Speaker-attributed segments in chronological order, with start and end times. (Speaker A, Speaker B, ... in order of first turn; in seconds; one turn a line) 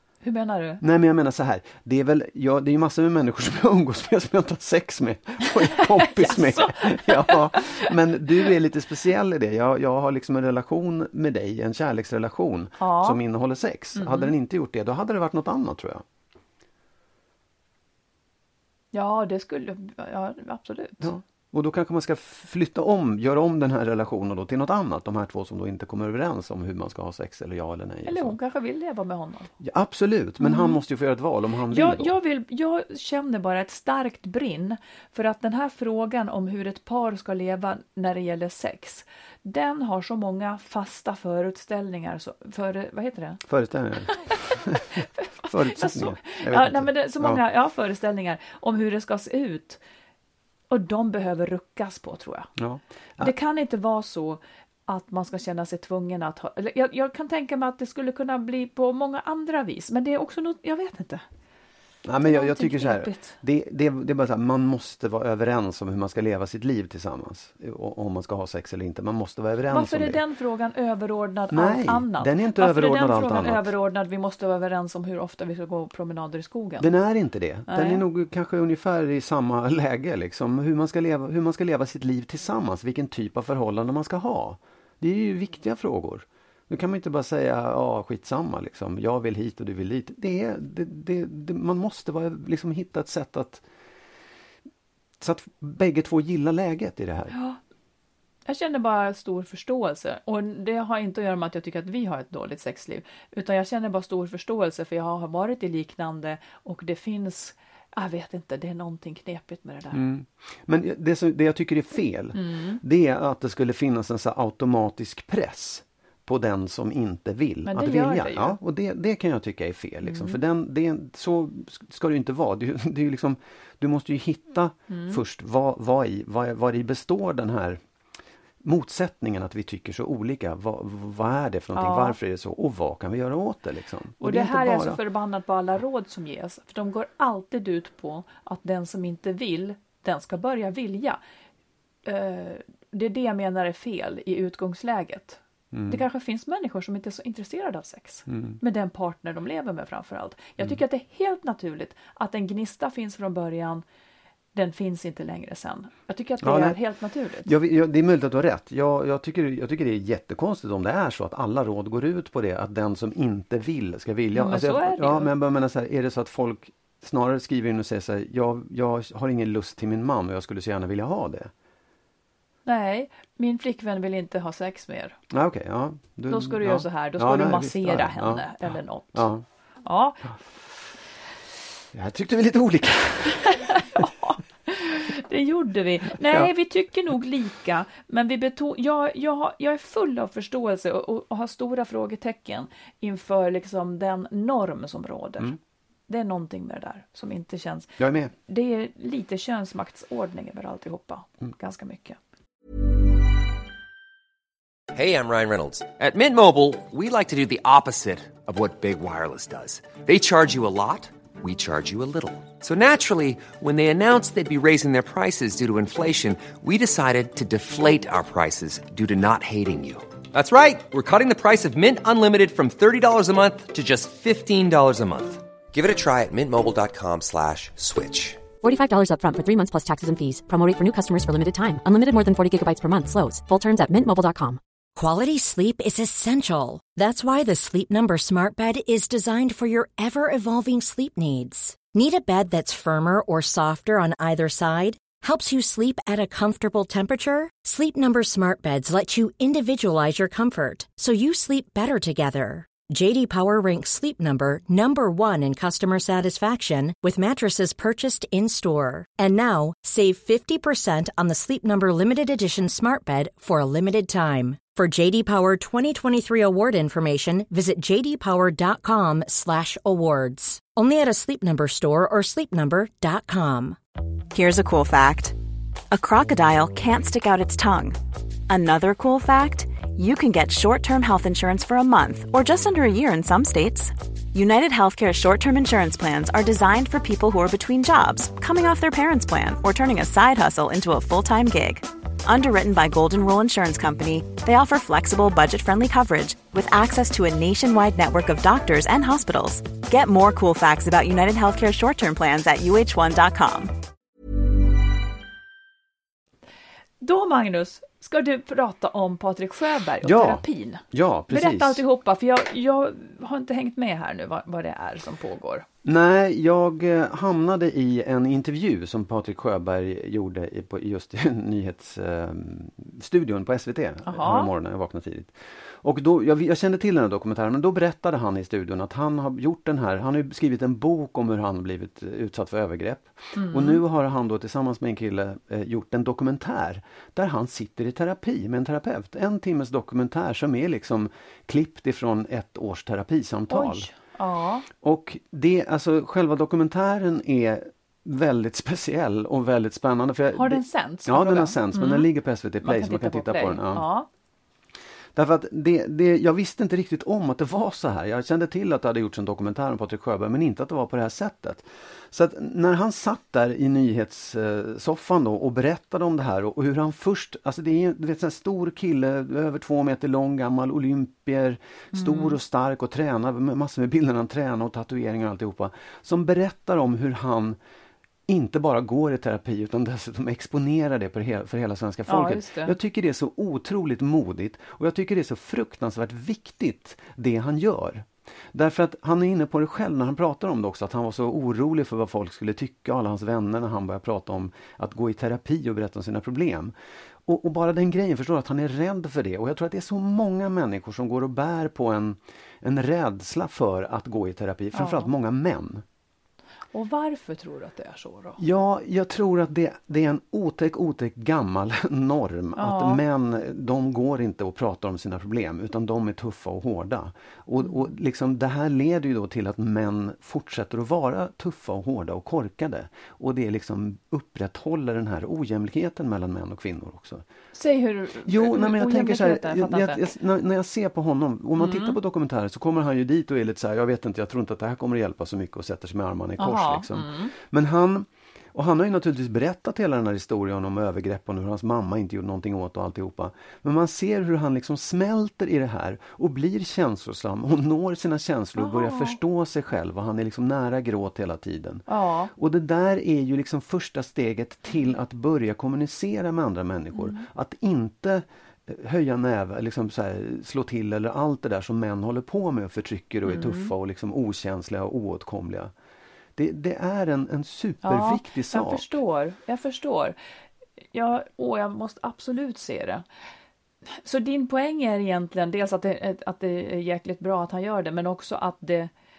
Speaker A: 0.2-0.8
Speaker B: 0.8-16.1
Speaker A: 5.8-7.9
Speaker A: 12.8-13.2
Speaker A: 13.9-14.3
Speaker A: 18.9-21.1
Speaker B: 21.0-28.3
Speaker A: 28.1-29.5
Speaker B: 29.6-32.1
Speaker A: 30.4-30.8
Speaker A: 31.7-43.4
Speaker B: 43.4-47.4
Speaker A: 45.2-49.8
Speaker A: 50.7-52.5
Speaker B: 52.6-53.3
Speaker A: 53.2-61.2
Speaker B: 62.0-70.2
Speaker A: 62.2-63.4
Speaker A: 69.7-76.9
Speaker B: 71.5-73.7
Speaker B: 76.8-93.7
Speaker A: 77.7-78.0
Speaker B: 95.2-97.3
Speaker A: 97.3-97.6
Speaker A: 98.5-110.0
Speaker B: 109.9-127.8
Speaker A: 112.3-112.8
Speaker A: 117.7-118.6
Speaker A: 120.0-120.4
Speaker A: 124.9-125.2
Speaker B: 128.6-135.0
Speaker A: 131.7-132.2
Speaker A: 134.2-141.2
Speaker A: 142.1-153.8
Speaker B: 145.7-146.0
Speaker B: 148.3-148.6
Speaker A: 154.5-157.5
Speaker B: 156.4-156.8
Speaker B: 157.4-171.5
Speaker A: 164.3-165.3
Speaker A: 172.7-175.2
Speaker B: 175.3-178.5
Speaker A: 176.3-179.3
Speaker B: 179.1-179.4
Speaker A: 179.8-180.3
Speaker B: 181.9-184.1
Speaker A: 183.4-195.5
Speaker B: 186.2-186.5
Speaker A: 196.1-202.2
Speaker B: 198.0-198.3
Speaker C: 204.9-228.4
Speaker D: 228.6-234.6
Speaker E: 235.0-273.8
Speaker F: 274.3-275.4
Speaker F: 275.9-278.0
Speaker F: 278.5-303.7
Speaker A: 307.0-315.7
Speaker B: 310.0-311.8
Speaker B: 315.8-343.9
Speaker A: 324.1-324.5
Speaker A: 333.4-333.8
Speaker A: 343.5-344.7
Speaker B: 344.8-353.9
Speaker A: 350.3-352.1
Speaker A: 352.6-354.1
Speaker B: 355.1-377.6
Speaker A: 371.9-372.4
Speaker B: 378.3-396.7
Speaker A: 382.1-382.8
Speaker B: 397.2-405.9
Speaker A: 404.7-405.1
Speaker A: 406.7-408.4
Speaker B: 408.4-427.2
Speaker A: 412.6-413.0
Speaker A: 427.5-430.1
Speaker B: 428.2-465.7
Speaker A: 431.6-432.0
Speaker A: 436.4-437.3
Speaker A: 448.6-449.2
Speaker A: 451.9-452.3
Speaker A: 456.9-457.2
Speaker A: 463.3-463.7
Speaker B: 466.4-468.8
Speaker A: 467.8-470.2
Speaker A: 470.9-473.1
Speaker A: 474.0-478.9